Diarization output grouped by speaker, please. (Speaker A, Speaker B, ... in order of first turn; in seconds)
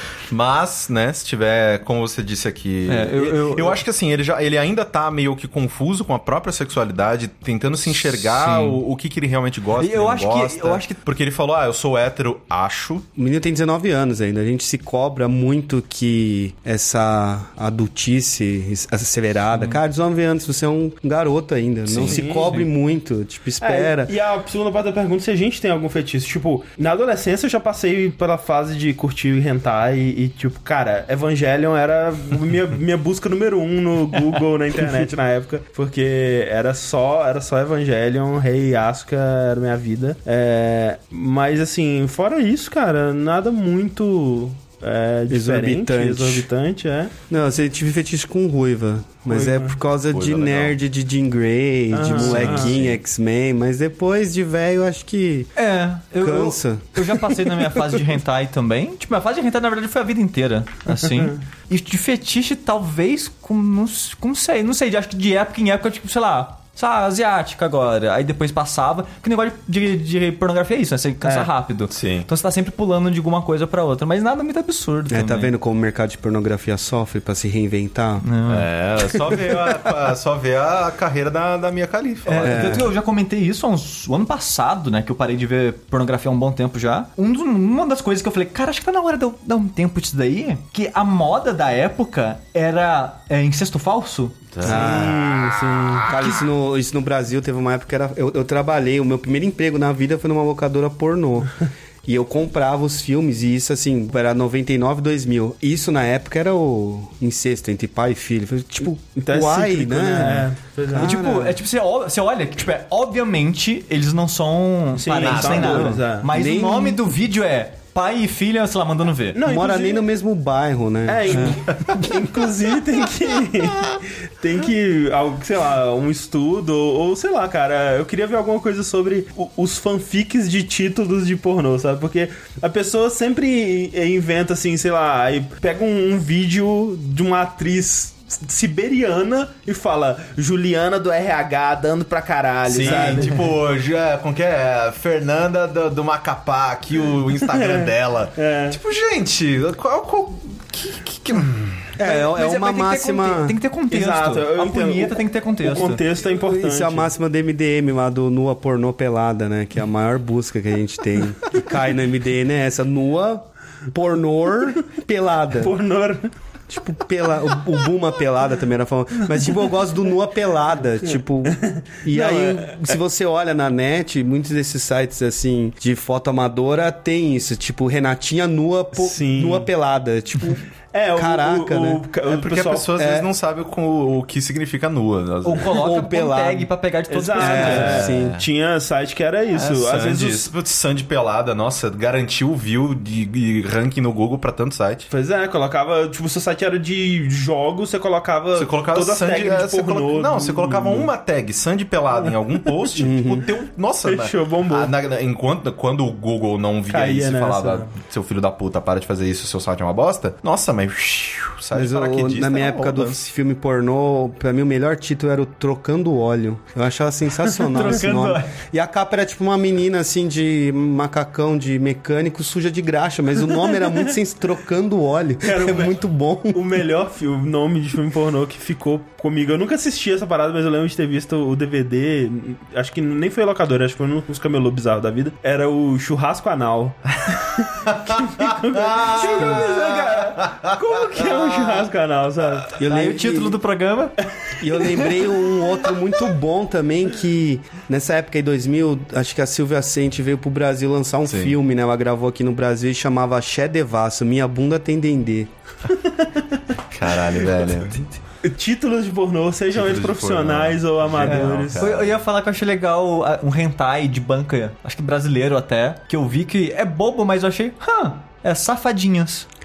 Speaker A: 0.3-13.1, 21.9-22.2, 50.1-50.8, 52.1-53.0, 71.9-72.3, 78.5-82.8, 94.5-96.1, 115.2-115.8, 142.7-151.8, 182.2-185.8, 187.6-188.4, 189.5-195.1, 198.5-213.2, 237.8-240.8, 251.2-251.5, 256.9-258.0, 259.7-262.1
Speaker B: 2.9-3.8, 8.0-8.8, 9.8-11.0, 55.6-75.5, 78.2-78.7, 82.2-94.6, 110.9-119.4, 152.0-156.0, 185.4-188.1, 217.6-218.5, 239.1-240.3, 242.8-244.2, 261.2-269.4
Speaker C: 13.2-24.1, 45.3-46.5, 47.3-55.5, 56.2-57.8, 75.1-78.2, 82.4-82.9, 94.6-95.2, 96.1-111.6, 115.5-117.0, 119.4-121.6, 142.8-143.3, 152.0-153.6, 156.3-165.7, 166.7-182.0, 183.0-183.3, 185.7-186.7, 187.3-188.4, 202.9-203.4, 211.7-226.6, 242.8-243.6, 244.6-255.5
Speaker D: 22.1-22.6, 23.6-47.1, 49.3-49.8, 51.9-52.7, 71.2-71.5, 94.6-96.1, 109.2-111.1, 114.9-116.3, 119.3-120.0, 121.0-143.4, 147.4-148.8, 153.9-157.1, 165.6-166.3, 171.4-173.0, 178.9-179.7, 180.9-182.9, 187.1-190.5, 195.1-201.1, 204.0-204.9, 206.9-207.9, 225.4-226.0, 226.5-242.7, 256.1-256.4, 258.4-261.9